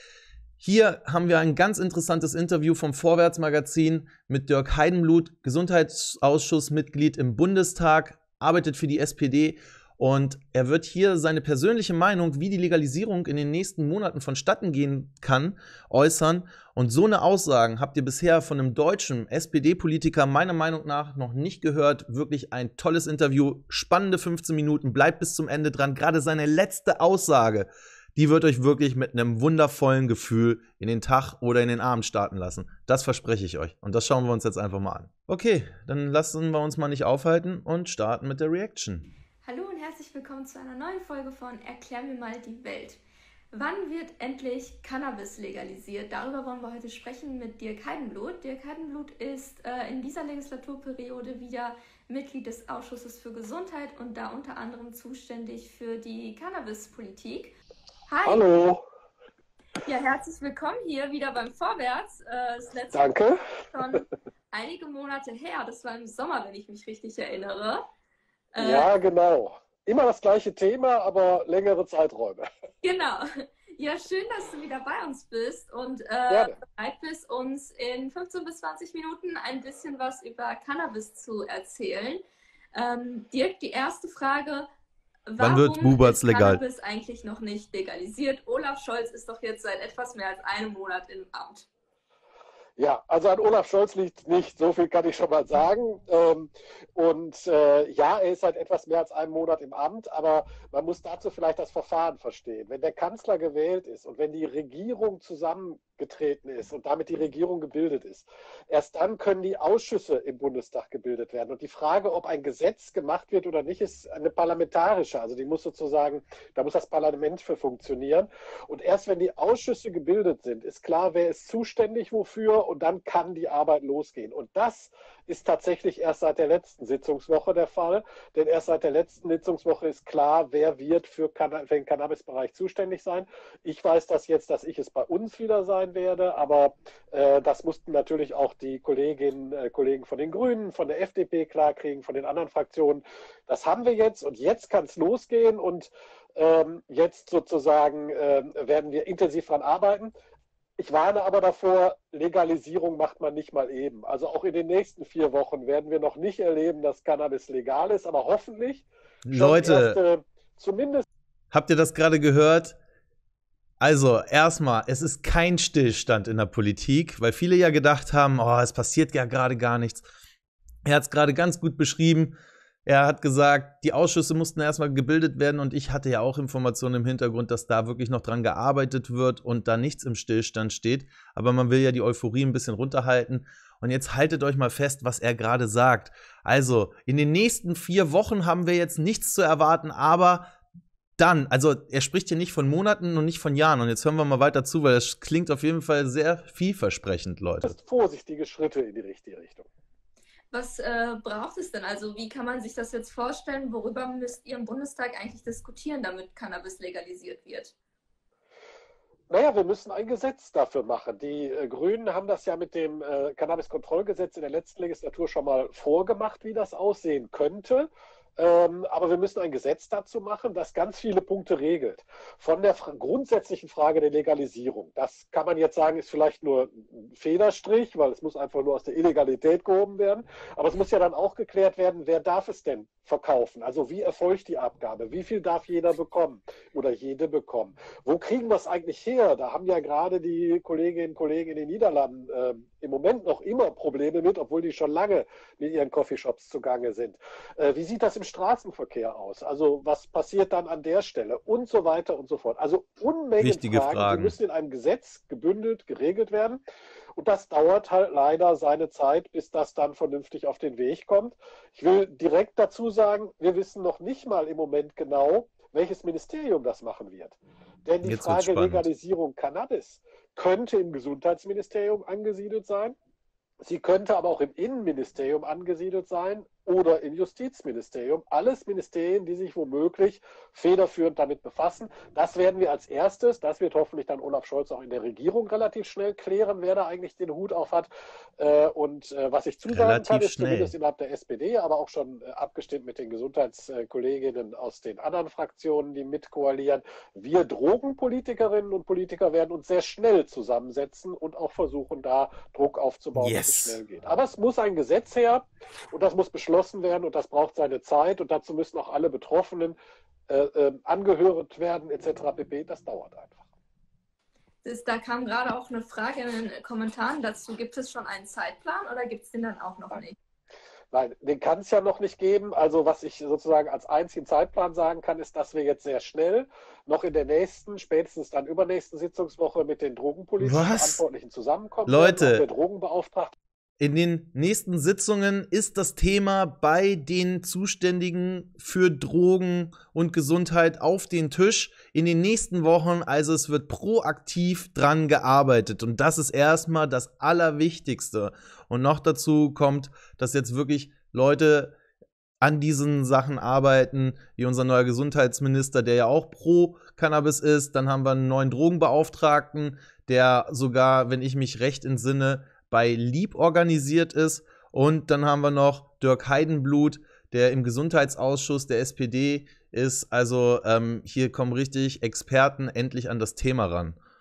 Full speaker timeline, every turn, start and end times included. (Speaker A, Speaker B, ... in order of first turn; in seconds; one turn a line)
Speaker A: 0.6-39.1
Speaker B: 39.4-43.0
Speaker B: 43.5-57.5
Speaker B: 58.1-58.4
Speaker C: 58.2-58.8
Speaker B: 59.8-63.1
Speaker C: 62.9-63.4
Speaker B: 63.7-67.8
Speaker B: 68.5-68.9
Speaker C: 68.6-72.4
Speaker B: 72.8-82.2
Speaker C: 76.3-76.6
Speaker B: 82.7-84.7
Speaker B: 85.3-91.6
Speaker A: 85.4-86.6
Speaker C: 92.8-150.1
Speaker C: 150.8-161.0
Speaker A: 159.2-160.0
Speaker A: 161.5-162.8
Speaker A: 163.8-170.1
Speaker A: 170.8-172.3
Speaker A: 172.8-190.5
Speaker A: 191.2-197.7
Speaker C: 197.6-199.7
Speaker B: 200.5-207.7
Speaker C: 209.3-256.6
Speaker A: 253.4-254.3
Speaker C: 257.1-272.9
Speaker A: 268.0-268.9
Speaker C: 273.6-309.8
Speaker A: 289.7-290.7
Speaker A: 303.1-303.8
Speaker C: 310.3-313.4
Speaker B: 314.6-320.1
Speaker C: 320.9-333.3
Speaker A: 330.4-331.0
Speaker A: 331.9-332.4
Speaker A: 333.8-351.8
Speaker A: 352.4-374.0